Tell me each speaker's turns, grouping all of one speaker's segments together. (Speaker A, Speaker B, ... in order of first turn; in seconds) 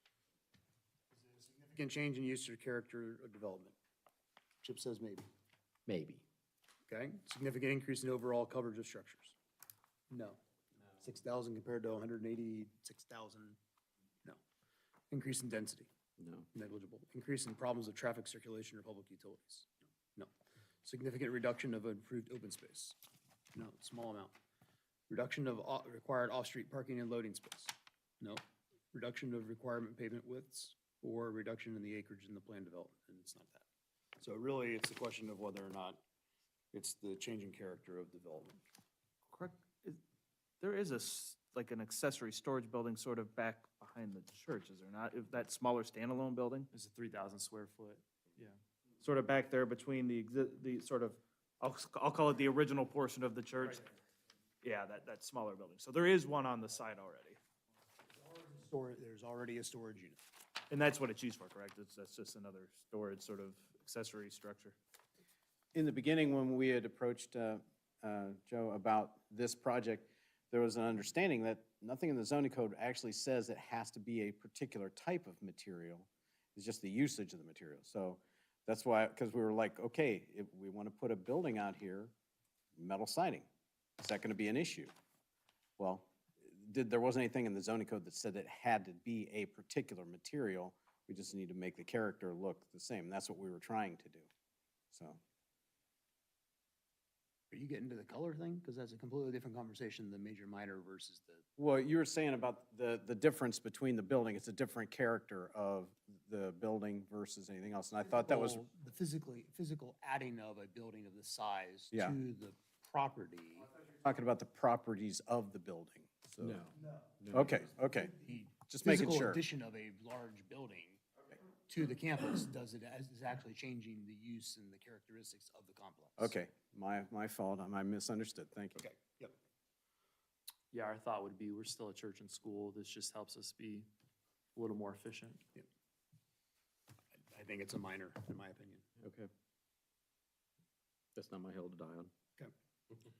Speaker A: 1.1-3.8, 4.6-5.3, 6.9-9.4, 10.1-10.4, 11.0-13.6, 15.1-15.9, 16.5-20.3, 20.8-23.0, 23.5-24.4, 25.1-33.7, 34.2-36.0, 36.7-38.6, 58.1-60.2, 97.5-101.5, 108.1-113.7, 117.9-121.0, 121.7-126.3, 128.8-129.3, 137.2-138.9
Speaker B: 5.9-6.2, 16.2-16.5, 116.4-117.6, 139.0-139.3, 141.2-142.1
Speaker C: 39.3-40.0, 40.6-46.7, 49.0-53.8, 54.6-57.4, 60.7-64.8
Speaker D: 46.7-48.6, 130.7-133.9, 134.5-135.4
Speaker E: 65.7-82.1, 82.8-83.5, 84.0-84.9, 85.8-94.3, 94.9-95.2, 101.6-108.7, 111.9-112.2, 114.0-116.6, 117.3-118.1, 118.7-119.5, 126.2-128.8